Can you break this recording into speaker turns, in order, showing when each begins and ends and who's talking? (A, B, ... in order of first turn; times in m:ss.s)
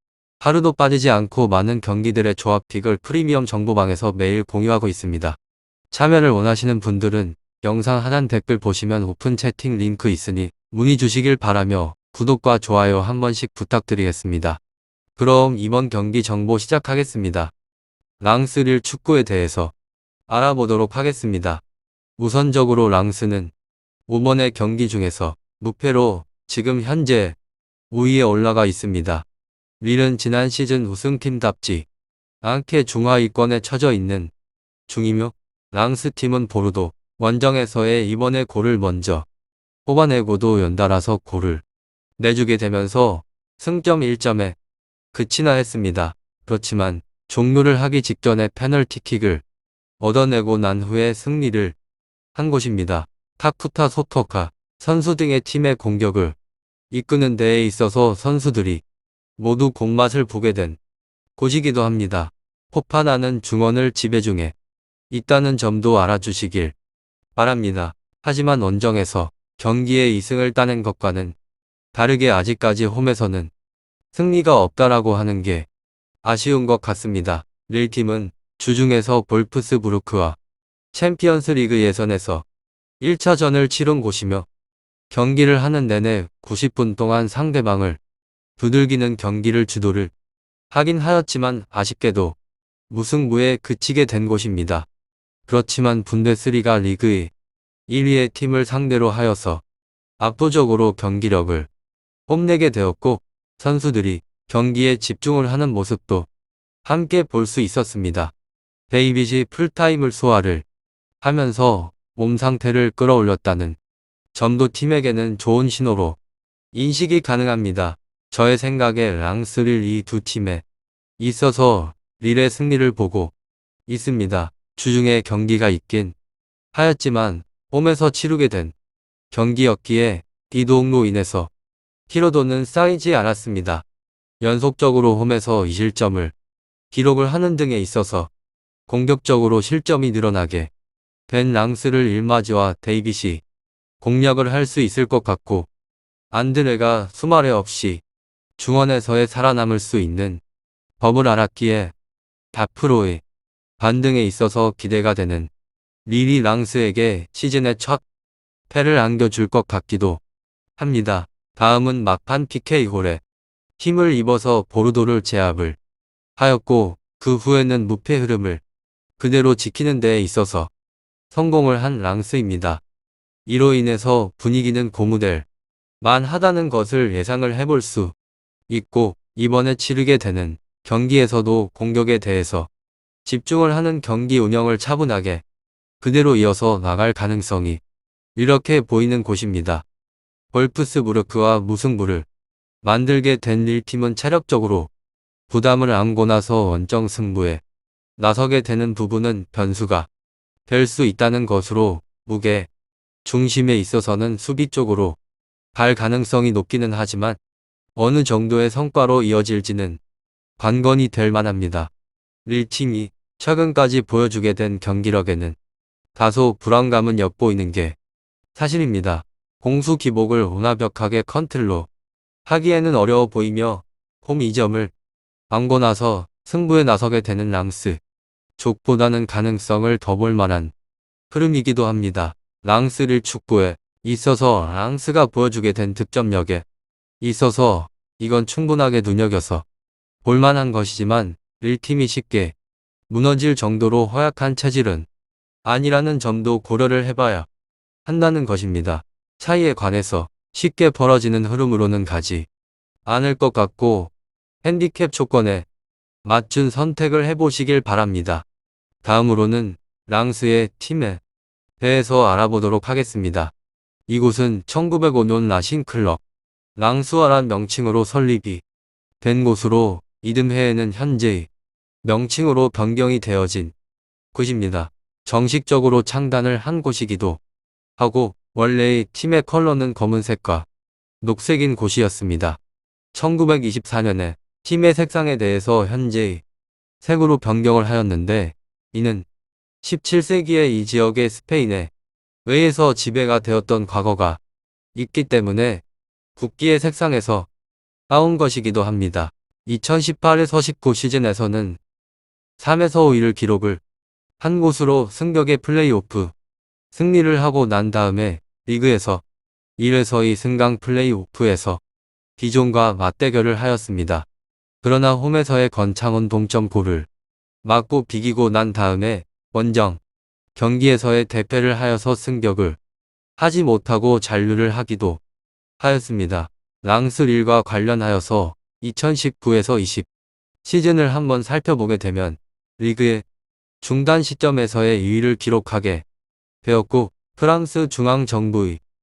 0:00.4-0:05.4 A
0:05.9-0:14.6 A
0:15.2-0:17.5 A
0:18.2-0:19.7 A
0:20.3-0:21.6 A
0:22.2-0:23.5 A
0:24.1-0:27.4 A
0:27.9-0:29.3 A
0:29.8-0:31.9 A
0:32.4-0:34.3 A
0:34.9-0:39.3 A
0:39.9-0:41.6 A
0:42.2-0:44.6 A
0:45.1-0:49.4 A
0:50.0-0:51.8 A
0:52.4-0:56.4 A
0:56.9-0:58.8 A
0:59.4-1:00.8 A
1:01.4-1:04.6 A
1:05.1-1:06.8 A
1:07.4-1:11.4 A
1:11.9-1:13.5 A
1:14.1-1:15.7 A
1:16.2-1:20.4 A
1:20.9-1:22.5 A
1:23.0-1:24.5 A
1:25.1-1:28.0 A
1:28.6-1:30.1 A
1:30.7-1:32.4 A
1:32.9-1:34.9 A
1:35.5-1:37.3 A
1:37.9-1:39.6 A
1:40.2-1:41.7 A
1:42.3-1:46.3 A
1:46.8-1:48.3 A
1:48.9-1:50.6 A
1:51.2-1:53.8 A
1:54.3-1:56.2 A
1:56.7-2:00.6 A
2:01.2-2:03.3 A
2:03.9-2:06.2 A
2:06.7-2:08.7 A
2:09.3-2:11.5 A
2:12.1-2:13.8 A
2:14.4-2:16.3 A
2:16.9-2:18.3 A
2:18.9-2:20.7 A
2:21.3-2:23.4 A
2:24.0-2:25.7 A
2:26.3-2:28.0 A
2:28.6-2:30.4 A
2:31.0-2:31.9 A
2:32.5-2:33.2 A
2:33.8-2:35.5 A
2:36.1-2:38.0 A
2:38.7-2:40.2 A
2:40.8-2:43.2 A
2:43.8-2:45.8 A
2:46.4-2:48.6 A
2:49.2-2:50.7 A
2:51.3-2:52.8 A
2:53.5-2:55.5 A
2:56.0-2:58.2 A
2:58.7-3:02.7 A
3:03.2-3:05.4 A
3:06.0-3:07.8 A
3:08.4-3:09.8 A
3:10.5-3:12.3 A
3:12.8-3:14.9 A
3:15.5-3:17.6 A
3:18.2-3:20.1 A
3:20.7-3:22.7 A
3:23.2-3:25.2 A
3:25.7-3:27.4 A
3:28.0-3:30.0 A
3:30.6-3:31.9 A
3:32.4-3:35.6 A
3:36.2-3:38.0 A
3:38.5-3:41.9 A
3:42.5-3:44.9 A
3:45.5-3:48.0 A
3:48.6-3:50.7 A
3:51.3-3:56.6 A
3:57.2-3:59.6 A
4:00.2-4:02.6 A
4:03.1-4:05.1 A
4:05.6-4:07.5 A
4:08.1-4:12.5 A
4:13.0-4:15.7 A
4:16.2-4:18.4 A
4:19.0-4:21.2 A
4:21.8-4:23.5 A
4:24.1-4:26.2 A
4:26.8-4:28.6 A
4:29.2-4:31.5 A
4:32.0-4:33.7 A
4:34.3-4:37.4 A
4:38.0-4:40.7 A
4:41.2-4:42.6 A
4:43.1-4:46.4 A
4:47.0-4:49.3 A
4:49.8-4:51.9 A
4:52.4-4:54.4 A
4:54.9-4:55.8 A
4:56.4-4:57.5 A
4:58.1-5:01.8 A
5:02.6-5:03.8 A
5:04.4-5:06.3 A
5:06.9-5:09.2 A
5:09.8-5:11.8 A
5:12.4-5:14.3 A
5:14.8-5:17.1 A
5:17.6-5:20.0 A
5:20.6-5:22.8 A
5:23.4-5:25.2 A
5:25.8-5:30.1 A
5:30.6-5:33.3 A
5:33.8-5:36.0 A
5:36.6-5:38.8 A